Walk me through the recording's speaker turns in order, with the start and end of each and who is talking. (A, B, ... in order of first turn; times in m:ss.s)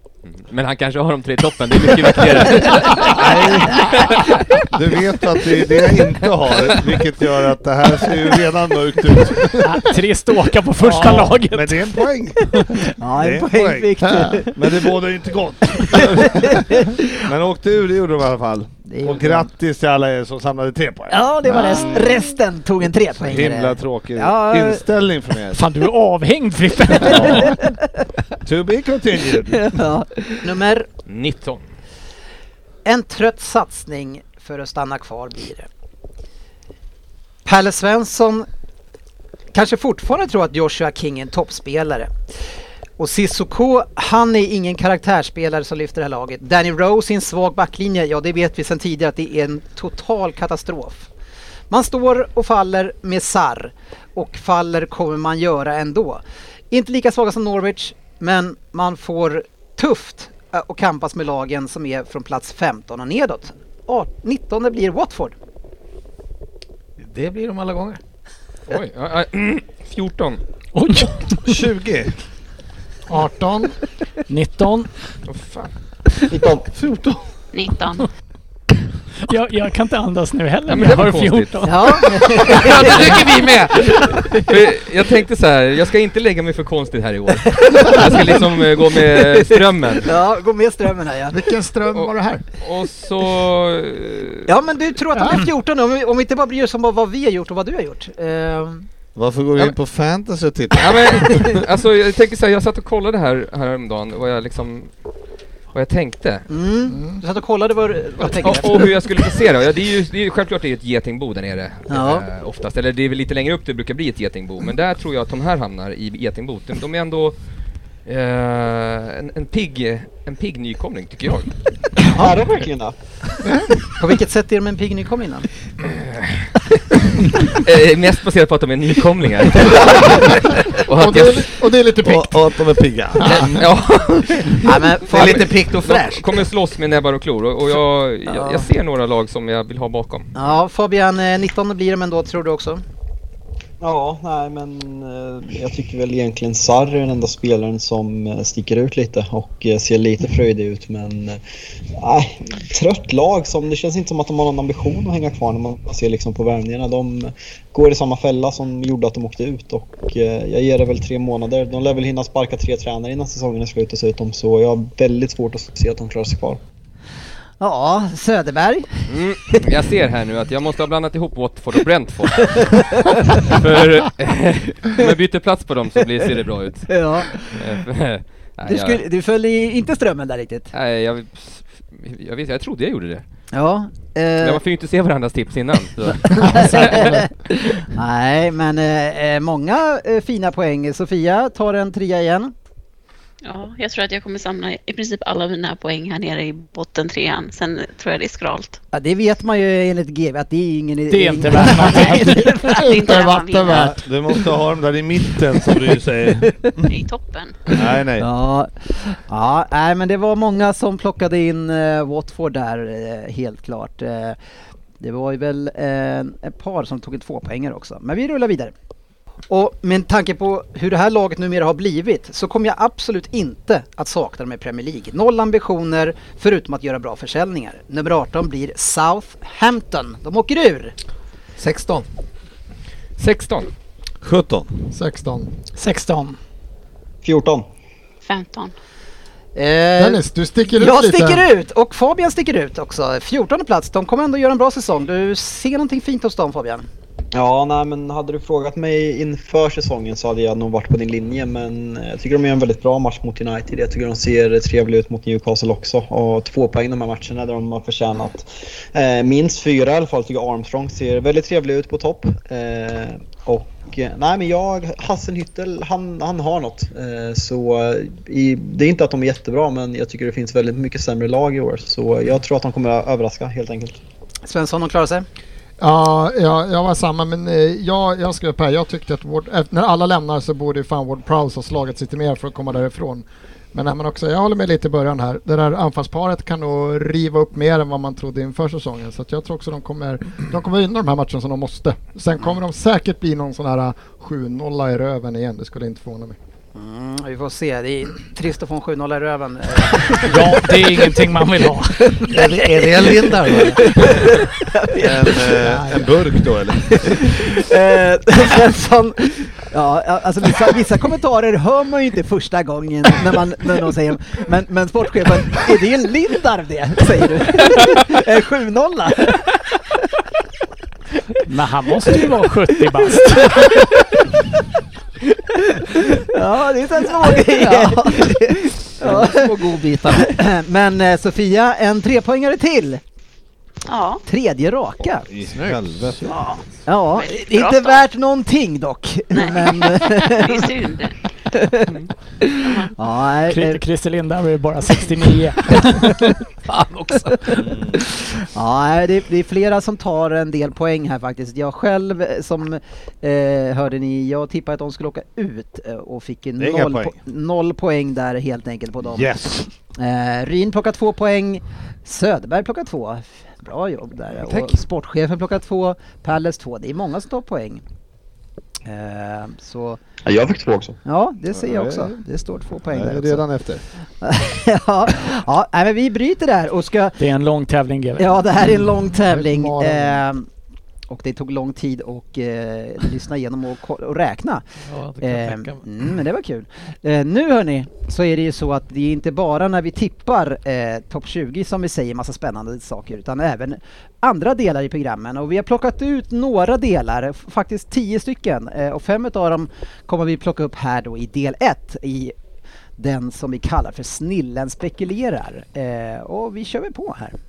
0:00.2-0:04.3 A
0:02.9-0:09.9 B
0:03.6-0:04.0 C
0:09.6-0:12.0 D
0:10.8-0:22.2 B
0:12.6-0:14.6 C
0:15.8-0:17.2 C
0:18.9-0:19.5 C
0:21.1-0:24.8 C
0:23.2-0:25.6 B
0:25.5-0:27.5 D
0:27.0-0:27.6 B
0:27.0-0:27.8 C
0:28.4-0:29.8 B
0:29.8-0:30.9 C
0:31.0-0:31.6 A
0:32.8-0:35.7 C
0:37.4-0:38.4 C
0:39.5-0:42.1 C
0:43.0-0:51.1 C
0:51.7-1:05.3 C
1:07.0-1:08.0 E
1:08.7-1:10.4 A
1:10.7-1:11.6 D
1:11.4-1:12.1 B
1:13.1-1:13.7 F
1:14.3-1:14.9 D
1:15.3-1:15.7 A
1:16.3-1:16.7 G
1:16.7-1:17.2 B
1:17.5-1:18.1 H
1:19.3-1:22.4 D
1:20.7-1:21.7 A
1:21.6-1:23.2 C
1:22.4-1:30.1 A
1:22.5-1:23.9 E
1:27.7-1:28.4 C
1:29.2-1:31.4 C
1:31.3-1:32.4 F
1:31.9-1:34.5 A
1:34.5-1:38.9 C
1:35.2-1:35.4 F
1:39.1-1:41.4 B
1:40.8-1:44.9 A
1:45.7-1:46.4 A
1:46.5-1:48.9 C
1:46.9-1:47.2 F
1:48.2-1:57.4 A
1:51.9-1:52.2 C
1:58.0-2:01.5 A
2:02.0-2:02.9 G
2:04.0-2:05.5 C
2:05.8-2:06.4 A
2:07.4-2:11.5 A
2:10.9-2:12.4 F
2:12.0-2:13.7 B
2:13.2-2:13.4 F
2:13.2-2:20.3 A
2:14.6-2:15.5 C
2:15.1-2:16.4 E
2:18.3-2:18.7 C
2:20.3-2:22.8 C
2:23.8-2:31.4 G
2:32.0-2:46.6 G
2:47.6-2:49.0 C
2:49.1-2:59.0 A
2:52.4-2:53.5 C
2:56.9-2:57.6 C
2:58.6-3:00.7 C
3:00.7-3:03.2 A
3:03.5-3:04.6 C
3:04.4-3:07.2 A
3:06.2-3:12.5 C
3:13.4-3:18.8 H
3:18.9-3:22.8 C
3:21.1-3:22.4 D
3:22.0-3:24.0 F
3:22.6-3:23.9 H
3:23.7-3:26.9 B
3:26.9-3:27.6 H
3:27.7-3:28.3 B
3:28.2-3:34.4 C
3:35.0-3:38.7 C
3:39.5-3:50.9 C
3:51.6-3:52.0 E
3:53.2-3:53.7 A
3:54.2-3:54.8 B
3:54.9-3:55.5 F
3:55.8-3:56.4 D
3:57.2-3:57.6 G
3:58.2-3:58.7 H
3:59.5-4:06.8 C
4:00.0-4:01.4 F
4:07.3-4:34.0 G
4:34.4-4:35.2 C
4:35.8-4:56.4 F
4:56.7-5:00.8 C
5:00.2-5:02.2 D
5:02.1-5:06.1 C
5:02.3-5:04.2 E
5:04.9-5:07.4 B
5:06.8-5:19.5 C
5:21.4-5:23.8 D
5:25.7-5:33.0 C
5:27.2-5:30.3 E
5:33.9-5:34.2 H
5:34.2-5:35.3 C
5:35.2-5:36.4 B
5:36.8-5:40.7 C
5:37.1-5:38.0 H
5:39.3-5:41.2 H
5:41.5-5:41.9 C
5:42.6-5:42.9 H
5:42.9-5:43.8 C
5:43.5-5:46.2 D
5:46.6-5:47.6 E
5:47.5-5:48.0 B
5:48.2-5:59.3 C
5:56.6-5:57.2 B
5:59.0-5:59.7 B
6:00.0-6:07.8 C
6:08.8-6:10.0 C
6:10.2-6:11.0 G
6:11.0-6:13.4 C
6:11.5-6:12.2 B
6:12.9-6:13.8 B
6:14.2-6:17.2 C
6:17.2-6:18.4 D
6:18.2-6:20.4 C
6:19.2-6:20.2 F
6:21.1-6:24.6 C
6:24.9-6:25.8 E
6:25.2-6:42.3 C
6:43.0-6:47.3 C